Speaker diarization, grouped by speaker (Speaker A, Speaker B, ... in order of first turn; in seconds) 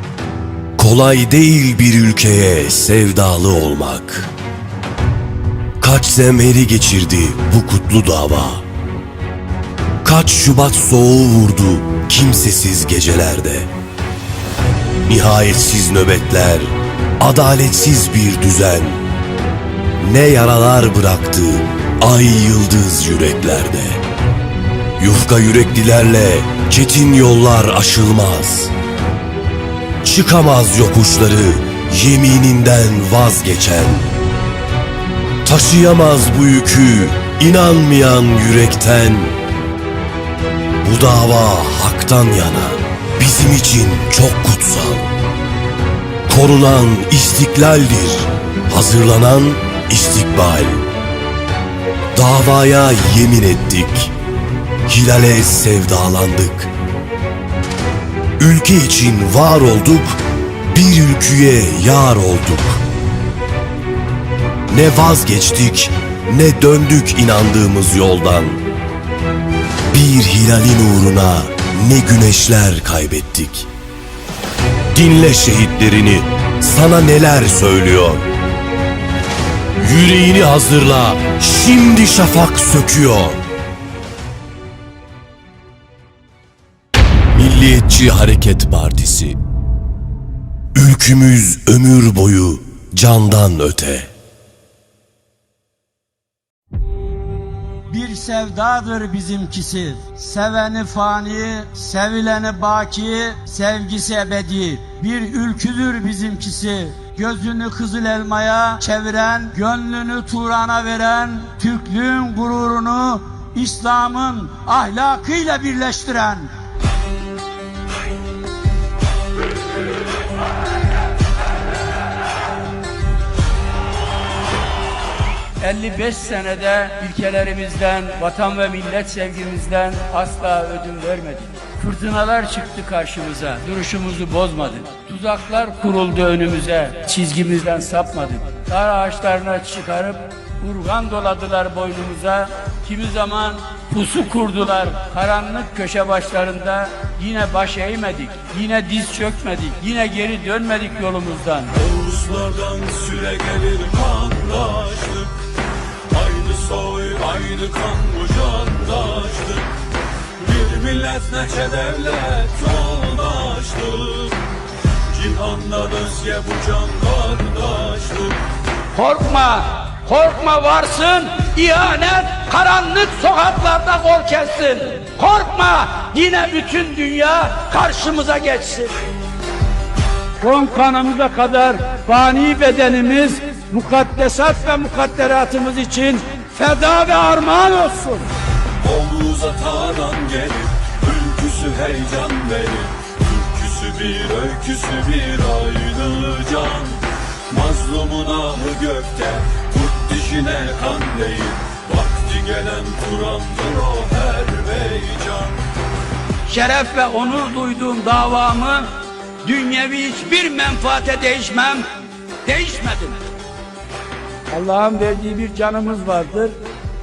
Speaker A: 0.8-4.3, 5.8-8.6, 10.0-13.7, 15.1-19.0, 20.0-24.0, 25.0-28.7, 30.0-34.1, 35.5-39.3, 40.8-45.1, 46.3-50.8, 52.1-54.1, 54.9-56.7, 58.4-62.8, 64.7-68.6, 69.9-73.7, 74.9-78.2, 79.8-83.4, 87.3-89.4, 90.8-94.1, 152.0-153.1, 201.7-202.3, 202.9-204.0
Speaker B: 97.9-116.5, 125.6-151.9, 168.9-178.9, 180.4-188.3, 206.5-208.9, 209.4-211.9, 212.4-213.2, 214.5-216.6
Speaker C: 152.1-154.7, 156.2-159.7, 160.5-164.2, 165.3-168.4, 189.0-190.6, 191.1-191.7, 192.3-192.8, 193.4-194.9, 197.6-198.5, 200.9-201.3, 202.3-204.1